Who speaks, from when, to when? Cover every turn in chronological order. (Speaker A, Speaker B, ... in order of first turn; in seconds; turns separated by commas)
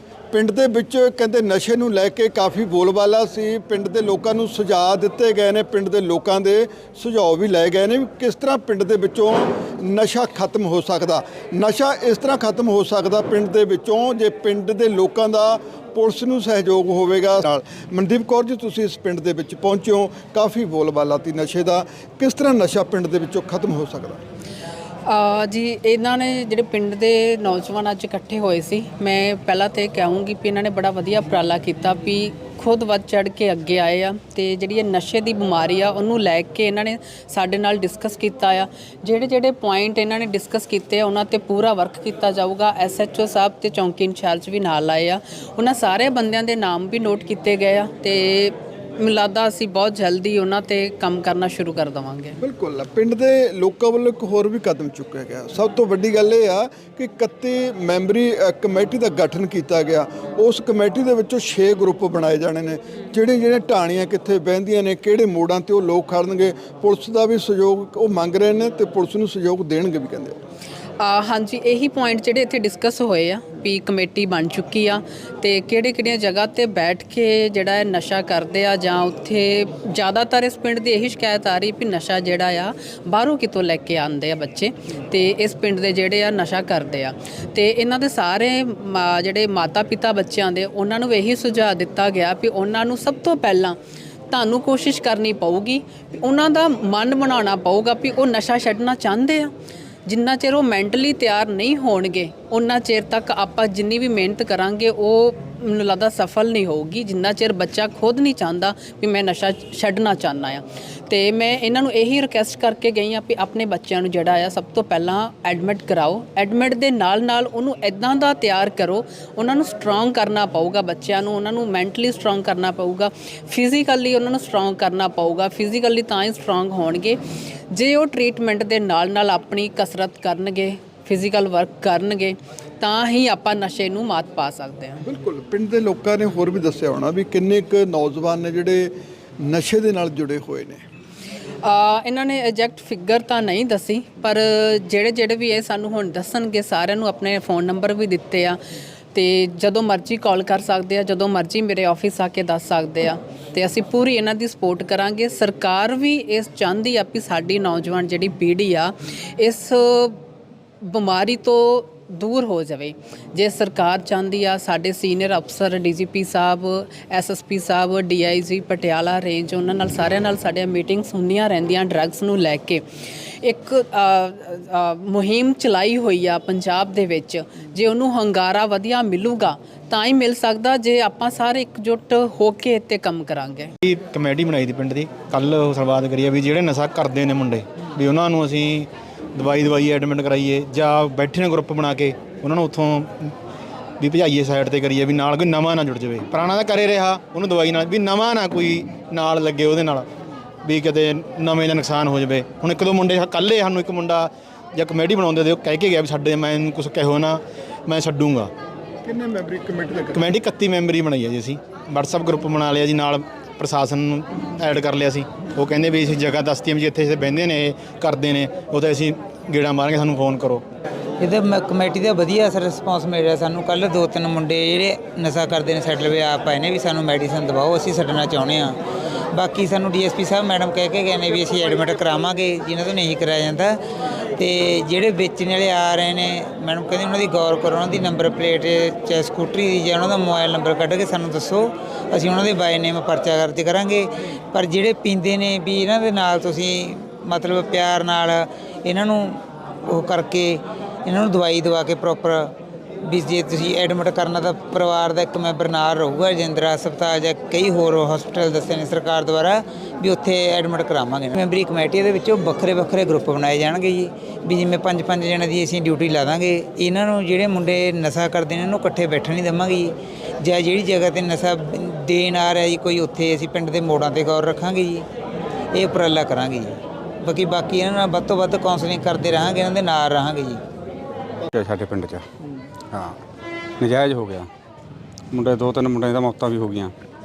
Speaker A: 0.3-24.2, Speaker B: 25.1-52.4, Speaker A: 52.4-70.4, Speaker B: 71.0-93.8, Speaker B: 94.3-99.5, Speaker B: 100.0-127.2, Speaker B: 127.7-135.0, Speaker A: 135.0-140.8, Speaker B: 141.6-148.6, Speaker B: 149.1-160.2, Speaker B: 160.8-172.8, Speaker B: 173.4-183.7, Speaker C: 183.8-193.3, Speaker C: 194.0-200.1, Speaker C: 200.6-208.5, Speaker A: 209.0-210.3, Speaker C: 210.1-220.6, Speaker D: 221.2-228.8, Speaker D: 229.3-233.8, Speaker D: 234.3-275.1, Speaker D: 275.7-280.6, Speaker E: 281.5-282.3, Speaker E: 282.9-283.2, Speaker E: 283.8-284.5, Speaker E: 285.3-286.9